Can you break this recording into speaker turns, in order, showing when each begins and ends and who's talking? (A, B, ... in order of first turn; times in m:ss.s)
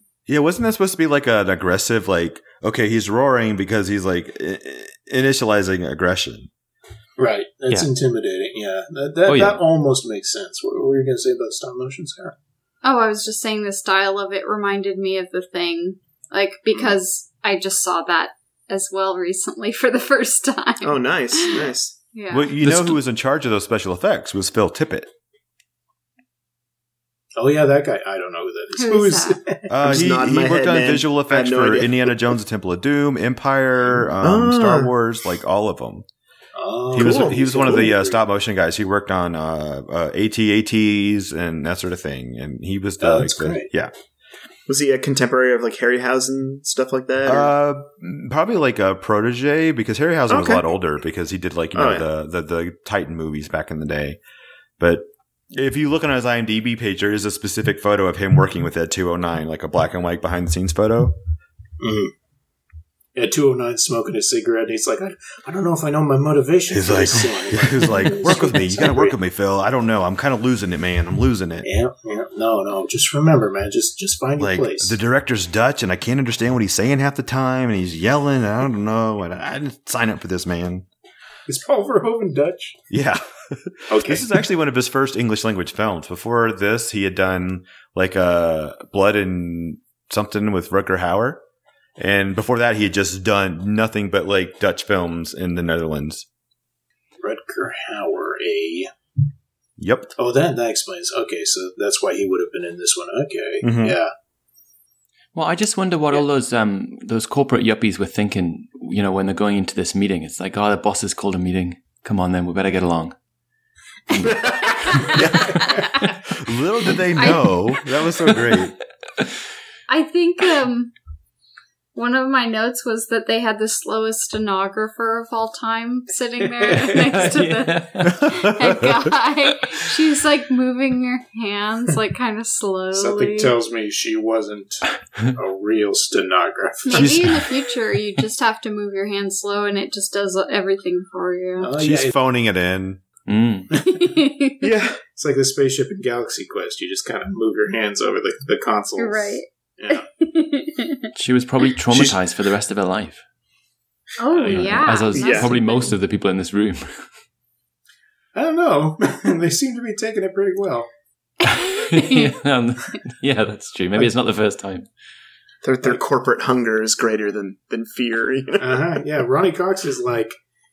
0:00.3-0:06.5 A
0:07.2-0:12.3 B
0:09.3-0:09.6 C
0:12.8-0:22.5 D
0:20.8-0:22.0 E
0:22.3-0:25.1 A
0:22.6-0:23.0 C
0:27.4-0:29.8 B
0:28.7-0:29.4 D
0:29.7-0:36.0 A
0:29.8-0:32.3 E
0:34.2-0:34.9 E
0:36.6-0:38.2 B
0:36.9-0:43.9 A
0:36.9-0:37.9 E
0:43.0-0:43.6 B
0:44.7-0:47.5 E
0:47.2-0:54.2 A
0:50.3-0:50.6 E
0:51.7-0:52.0 E
0:54.8-1:01.2 A
1:01.8-1:02.1 B
1:03.1-1:09.2 B
1:06.7-1:11.7 A
1:11.6-1:15.0 B
1:14.4-1:20.8 A
1:21.5-1:22.8 B
1:22.9-1:31.4 A
1:23.9-1:24.3 B
1:32.0-1:36.3 A
1:37.2-1:38.9 B
1:39.8-1:40.1 A
1:40.2-1:44.1 B
1:43.6-1:44.0 A
1:45.3-1:53.1 C
1:54.1-1:55.2 C
1:54.2-1:56.1 D
1:54.2-1:54.8 E
1:55.1-1:55.6 A
1:55.5-1:55.9 B
1:56.3-1:58.8 A
1:57.1-1:57.9 D
1:59.9-2:00.9 D
2:01.9-2:13.5 D
2:06.6-2:07.2 B
2:06.9-2:08.3 C
2:08.1-2:09.1 A
2:12.9-2:17.3 B
2:16.8-2:21.7 D
2:16.9-2:17.5 A
2:21.6-2:22.1 B
2:21.8-2:23.0 A
2:23.3-2:23.7 C
2:23.7-2:24.1 B
2:23.8-2:24.7 D
2:24.6-2:25.0 E
2:25.1-2:30.0 B
2:29.0-2:31.1 D
2:31.1-2:33.2 C
2:34.2-2:35.9 D
2:34.3-2:37.1 C
2:35.1-2:35.5 E
2:38.3-2:40.9 B
2:41.4-2:42.4 D
2:41.5-2:44.9 C
2:45.6-2:48.8 E
2:48.6-2:50.4 B